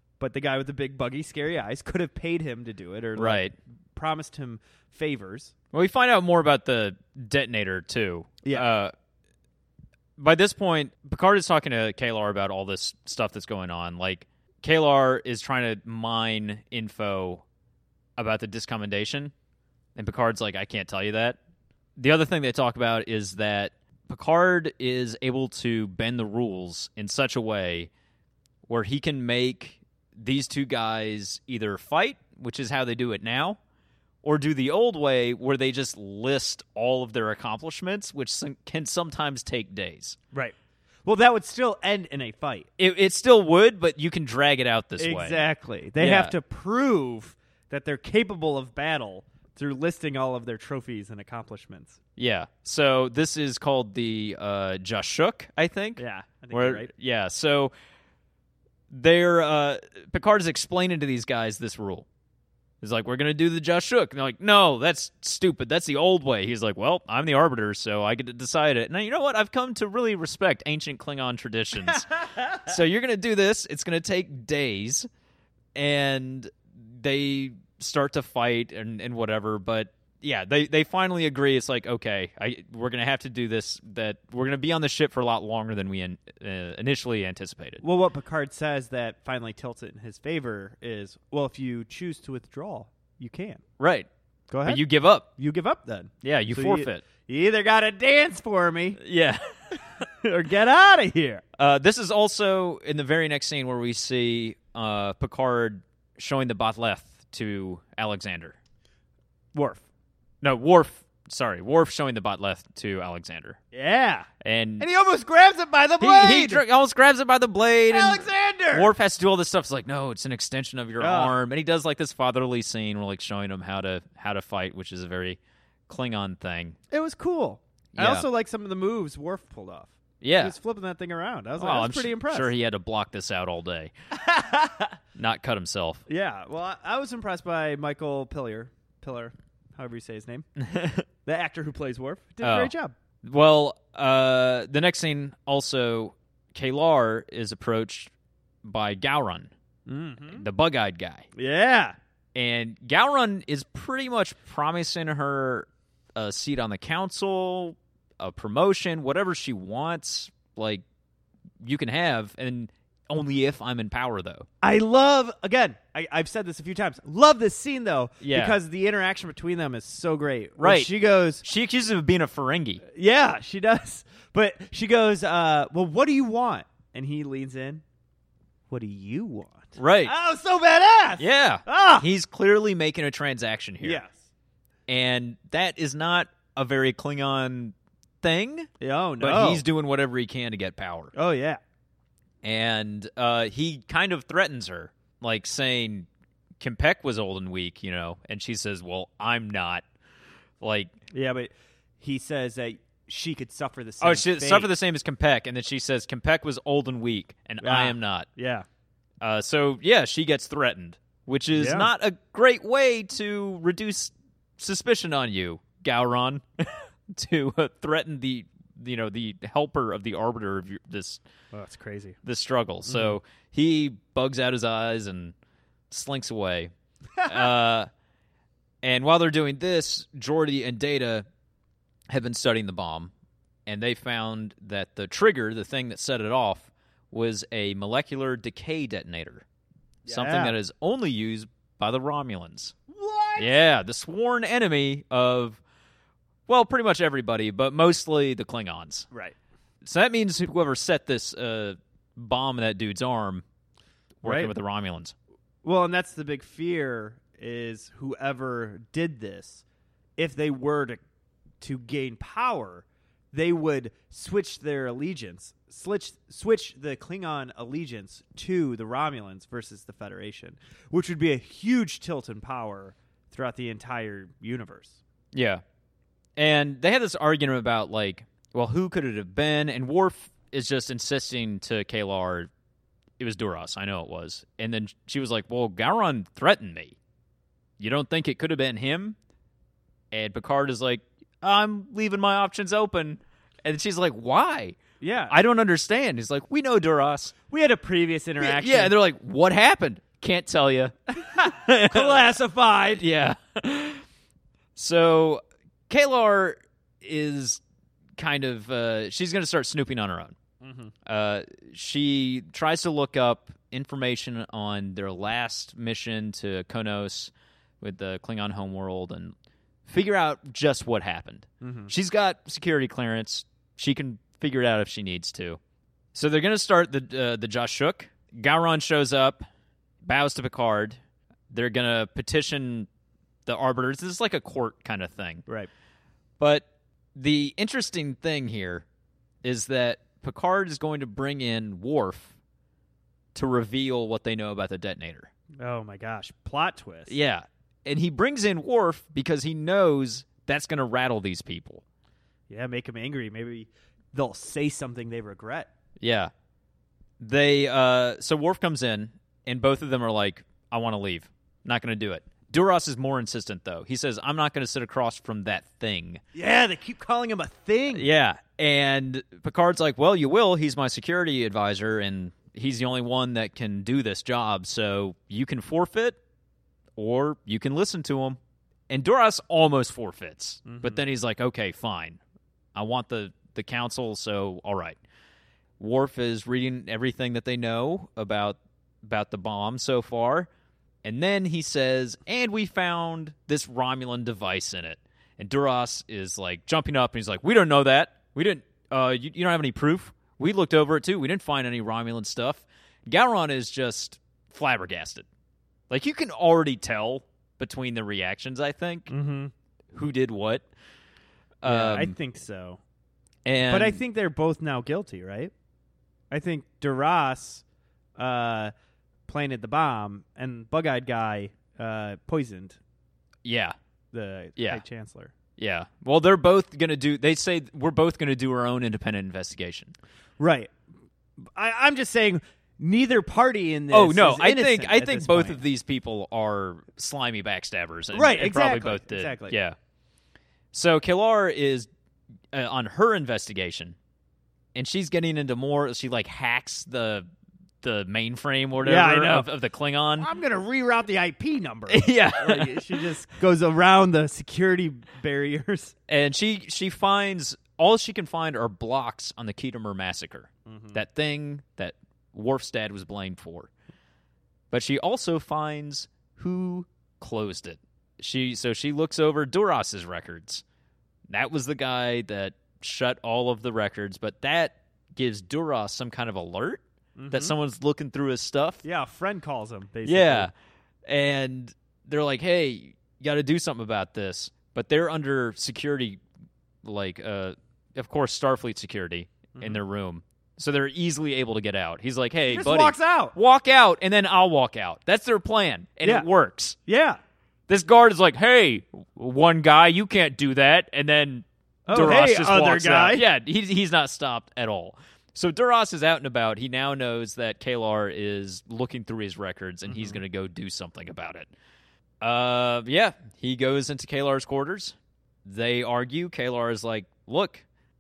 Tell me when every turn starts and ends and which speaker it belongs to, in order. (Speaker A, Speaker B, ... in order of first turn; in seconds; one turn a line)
Speaker A: 0.2-5.5
Speaker B: 3.2-3.5
Speaker B: 5.7-8.9
Speaker A: 8.4-8.7
Speaker B: 10.2-17.4
Speaker B: 18.2-19.3
Speaker B: 20.0-21.4
Speaker B: 22.0-27.9
Speaker B: 28.7-33.6
Speaker B: 34.2-40.2
Speaker A: 40.3-42.7
Speaker B: 42.8-45.4
Speaker A: 45.0-52.0
Speaker B: 46.0-46.3
Speaker B: 52.2-57.7
Speaker A: 56.0-56.9
Speaker B: 58.9-62.1
Speaker B: 62.8-75.1
Speaker A: 72.0-72.6
Speaker B: 75.8-87.8
Speaker A: 87.8-93.6
Speaker B: 93.8-94.1
Speaker A: 94.5-94.8
Speaker B: 94.7-95.3
Speaker A: 95.4-99.0
Speaker B: 96.2-97.0
Speaker B: 99.0-99.4
Speaker A: 100.2-101.4
Speaker B: 101.6-108.6
Speaker A: 109.5-109.8
Speaker B: 110.4-113.6
Speaker A: 113.7-114.3
Speaker B: 114.4-114.9
Speaker A: 114.8-116.6
Speaker B: 116.0-126.8
Speaker A: 117.9-118.9
Speaker A: 121.0-121.3
Speaker A: 126.9-132.5
Speaker B: 128.0-128.3
Speaker B: 130.2-130.6
Speaker B: 131.6-133.9
Speaker A: 134.1-134.9
Speaker B: 135.2-136.0
Speaker A: 136.1-140.5
Speaker B: 140.6-141.1
Speaker A: 141.2-142.9
Speaker B: 142.4-142.7
Speaker B: 143.2-148.1
Speaker B: 148.6-149.5
Speaker A: 149.9-150.4
Speaker B: 150.3-151.3
Speaker A: 151.4-152.0
Speaker B: 152.3-160.8
Speaker B: 161.6-164.5
Speaker A: 164.6-171.4
Speaker B: 168.2-168.6
Speaker B: 170.6-170.9
Speaker B: 171.4-172.8
Speaker A: 172.9-177.8
Speaker A: 178.7-182.1
Speaker B: 179.8-180.1
Speaker B: 181.2-184.0
Speaker A: 183.8-184.2
Speaker B: 184.9-191.1
Speaker A: 188.8-189.7
Speaker A: 191.1-191.6
Speaker B: 192.4-196.1
Speaker B: 196.6-199.8
Speaker B: 200.6-200.9
Speaker A: 201.1-204.7
Speaker B: 204.0-208.3
Speaker A: 207.6-208.7
Speaker B: 209.2-221.2
Speaker A: 211.6-211.9
Speaker A: 221.5-222.2
Speaker B: 222.2-225.3
Speaker A: 222.9-223.1
Speaker B: 225.9-226.7
Speaker A: 227.2-227.5
Speaker B: 227.2-227.9
Speaker B: 228.8-231.3
Speaker B: 232.1-233.1
Speaker B: 233.7-239.4
Speaker A: 240.1-240.5
Speaker B: 240.1-242.7
Speaker A: 242.9-243.6
Speaker B: 243.4-245.6
Speaker B: 246.5-249.1
Speaker B: 249.8-253.4
Speaker B: 254.2-255.1
Speaker A: 254.2-254.5
Speaker A: 255.6-259.6
Speaker A: 260.2-261.0
Speaker A: 261.6-275.0
Speaker B: 275.3-275.6
Speaker B: 276.4-282.5
Speaker B: 283.2-287.0
Speaker B: 287.8-289.2
Speaker B: 290.1-294.8
Speaker A: 295.0-295.3
Speaker B: 295.3-297.3
Speaker A: 297.5-298.9
Speaker B: 298.4-302.3
Speaker A: 301.3-303.0
Speaker B: 303.0-304.0
Speaker B: 304.8-307.6
Speaker B: 308.2-310.4
Speaker A: 310.6-310.9
Speaker B: 311.1-319.3
Speaker B: 319.9-325.6
Speaker A: 321.6-321.9
Speaker B: 326.1-329.4
Speaker B: 330.0-331.0
Speaker B: 331.5-332.9
Speaker B: 333.5-335.4
Speaker B: 336.4-338.9
Speaker B: 339.4-342.3
Speaker B: 343.4-345.3
Speaker A: 345.6-347.2
Speaker B: 347.1-351.8
Speaker A: 352.5-355.7
Speaker B: 356.0-356.3
Speaker B: 357.2-366.2
Speaker A: 366.3-368.1
Speaker B: 367.9-376.2
Speaker B: 377.0-382.2
Speaker A: 380.7-381.0
Speaker B: 382.8-385.0
Speaker B: 385.8-390.5
Speaker B: 391.0-405.3
Speaker B: 405.9-409.1
Speaker A: 409.1-409.5
Speaker B: 409.9-410.6
Speaker B: 411.6-412.2
Speaker A: 411.6-412.8
Speaker B: 413.4-414.0
Speaker A: 413.7-415.5
Speaker A: 416.3-417.6
Speaker A: 418.2-418.7
Speaker A: 419.3-422.8
Speaker B: 423.4-423.7
Speaker A: 424.1-425.3
Speaker B: 424.6-424.8
Speaker B: 425.6-429.9
Speaker A: 430.4-430.7
Speaker A: 431.6-435.6
Speaker B: 433.9-439.8
Speaker A: 438.1-439.6
Speaker B: 440.7-441.9
Speaker B: 442.5-444.0
Speaker B: 444.8-447.3
Speaker B: 447.8-450.3
Speaker A: 448.8-449.5
Speaker A: 450.2-455.9
Speaker B: 451.9-453.0
Speaker B: 456.1-463.7
Speaker A: 460.7-461.0
Speaker B: 464.7-470.6
Speaker B: 471.3-478.8
Speaker A: 477.2-477.6
Speaker A: 478.8-480.5
Speaker B: 480.1-480.5
Speaker B: 481.1-486.2
Speaker B: 486.8-496.8
Speaker A: 489.6-489.8
Speaker A: 492.5-493.3
Speaker A: 496.9-497.2
Speaker B: 497.7-511.5
Speaker A: 501.9-503.2
Speaker A: 509.9-510.2
Speaker B: 512.2-517.6